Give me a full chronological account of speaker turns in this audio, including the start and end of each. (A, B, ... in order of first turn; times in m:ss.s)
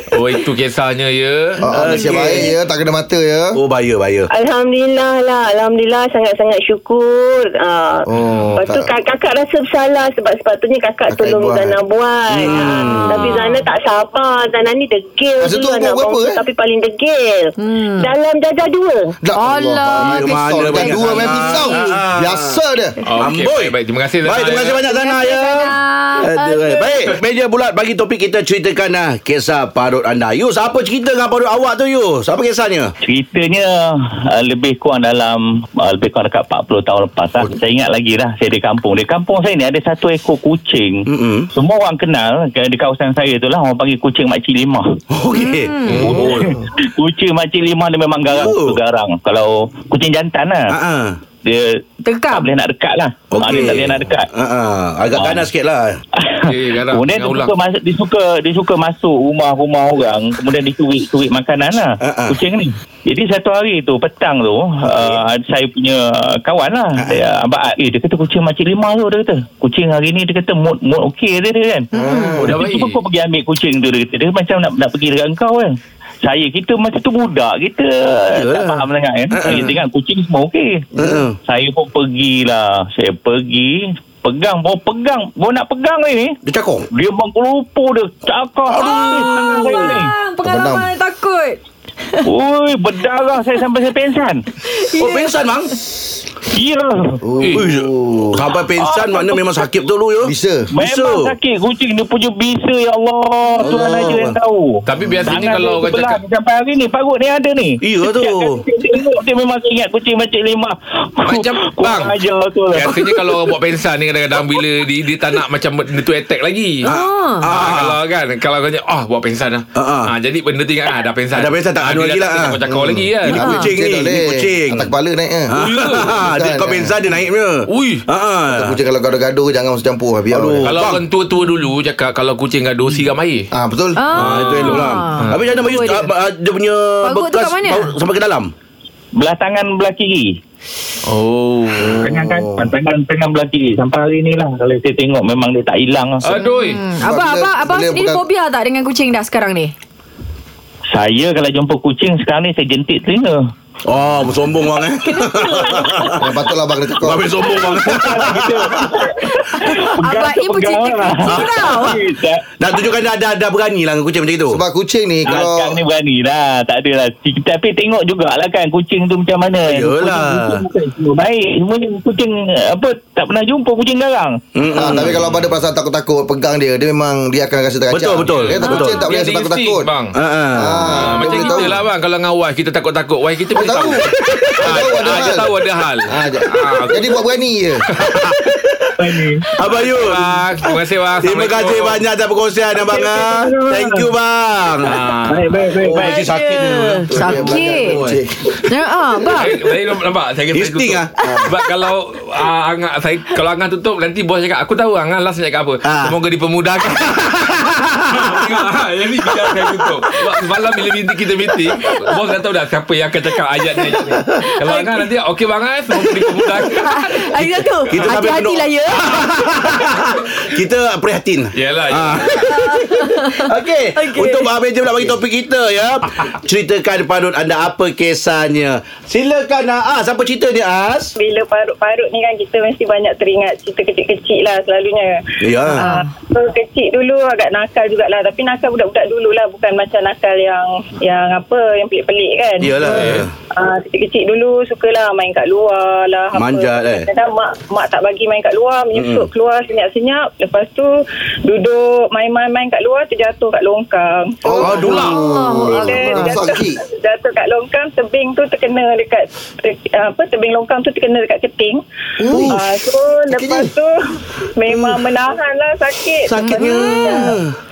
0:00.1-0:01.6 A
0:01.6-0:03.6 B
0:01.6-0:02.5 C
0:03.5-0:04.3 C
0:04.3-0:19.1 D
0:08.1-0:08.9 B
0:11.1-0:11.8 B
0:12.4-0:13.3 C
0:13.0-0:13.6 E
0:15.4-0:16.4 B
0:17.6-0:18.1 E
0:19.2-0:23.0 B
0:19.4-0:21.6 E
0:20.0-0:22.6 C
0:23.1-0:24.8 A
0:23.2-0:32.9 C
0:24.8-0:27.0 E
0:33.0-0:45.0 F
0:41.1-0:41.5 C
0:45.1-0:46.7 C
0:45.4-0:46.2 E
0:46.0-0:50.8 F
0:48.3-0:48.8 C
0:50.7-0:51.2 C
0:51.4-0:54.3 F
0:52.0-0:52.5 E
0:53.3-0:56.0 C
0:55.1-0:55.5 F
0:56.2-1:20.9 F
0:56.4-0:57.5 A
1:02.0-1:02.4 C
1:11.9-1:12.4 E
1:11.9-1:12.6 B
1:12.4-1:13.0 A
1:18.3-1:19.8 C
1:20.9-1:21.2 B
1:21.0-1:21.4 C
1:21.4-1:26.4 F
1:26.4-1:26.9 C
1:26.9-1:30.1 F
1:28.7-1:30.0 C
1:28.8-1:31.6 E
1:30.4-1:30.9 B
1:32.2-1:34.4 F
1:34.7-1:35.3 E
1:35.0-1:35.8 C
1:36.5-1:37.2 F
1:37.2-1:38.4 B
1:37.4-1:37.6 A
1:37.5-1:41.3 C
1:38.7-1:39.7 F
1:40.2-1:40.7 B
1:40.7-1:53.5 F
1:43.6-1:44.4 C
1:43.6-1:44.1 B
1:44.8-1:46.2 A
1:47.8-1:48.6 C
1:51.2-1:52.2 A
1:52.7-1:56.9 A
1:56.8-1:57.5 E
1:56.8-1:58.0 C
1:57.4-2:03.5 A
1:59.7-2:00.1 C
2:01.3-2:02.6 C
2:02.7-2:07.0 B
2:03.3-2:04.9 C
2:03.3-2:03.7 E
2:05.5-2:08.8 C
2:05.5-2:06.1 A
2:07.7-2:08.0 A
2:08.5-2:10.7 B
2:10.3-2:11.0 C
2:10.6-2:13.5 A
2:13.5-2:14.1 B
2:14.0-2:16.1 E
2:14.1-2:18.5 C
2:14.1-2:15.4 A
2:17.0-2:17.9 E
2:19.2-2:20.4 F
2:21.0-2:21.9 A
2:21.8-2:22.7 B
2:22.0-2:26.4 F
2:26.2-2:26.8 A
2:26.4-2:29.7 E
2:27.0-2:28.2 B
2:30.9-2:33.4 F
2:33.9-2:36.3 C
2:35.0-2:36.2 E
2:36.2-2:37.3 B
2:37.0-2:39.7 C
2:37.6-2:42.8 F
2:39.2-2:42.0 E
2:41.2-2:41.9 C
2:42.6-2:44.6 C
2:44.5-2:45.8 B
2:45.2-2:54.4 F
2:49.6-2:50.6 C
2:54.5-2:55.3 C
2:54.7-2:59.9 B
2:57.9-2:59.0 C
2:58.3-3:00.1 A
2:58.6-2:59.1 E
3:00.1-3:01.6 C
3:00.6-3:01.8 B
3:00.7-3:07.2 A
3:03.5-3:05.5 B
3:04.4-3:04.9 C
3:06.1-3:07.8 B
3:07.9-3:08.4 A
3:08.0-3:08.5 C
3:09.0-3:09.5 F
3:09.6-3:10.7 C
3:09.8-3:12.0 A
3:11.2-3:15.0 C
3:13.0-3:14.0 F
3:14.8-3:15.6 A
3:15.2-3:16.4 F
3:15.6-3:18.2 C
3:16.0-3:18.0 E
3:17.1-3:18.6 B
3:18.6-3:19.5 E
3:19.3-3:38.1 A
3:20.5-3:21.1 C
3:21.2-3:21.5 B
3:25.8-3:26.1 C
3:31.7-3:32.1 E
3:34.4-3:35.0 E
3:36.6-3:39.3 E
3:37.9-3:51.1 C
3:41.5-3:42.5 A
3:42.4-3:44.5 E
3:51.2-4:10.9 G
3:55.4-3:55.9 C
3:55.7-3:56.0 E
4:02.6-4:03.3 C
4:06.3-4:07.1 C
4:08.9-4:09.3 C
4:11.4-4:21.8 G
4:14.4-4:16.8 B
4:14.6-4:15.2 C
4:14.9-4:16.4 E
4:22.2-4:22.6 B
4:22.3-4:22.6 C
4:22.4-4:24.0 G
4:23.3-4:23.7 B
4:24.6-4:27.3 G
4:24.7-4:25.0 C
4:26.2-4:27.5 C
4:26.4-4:27.3 E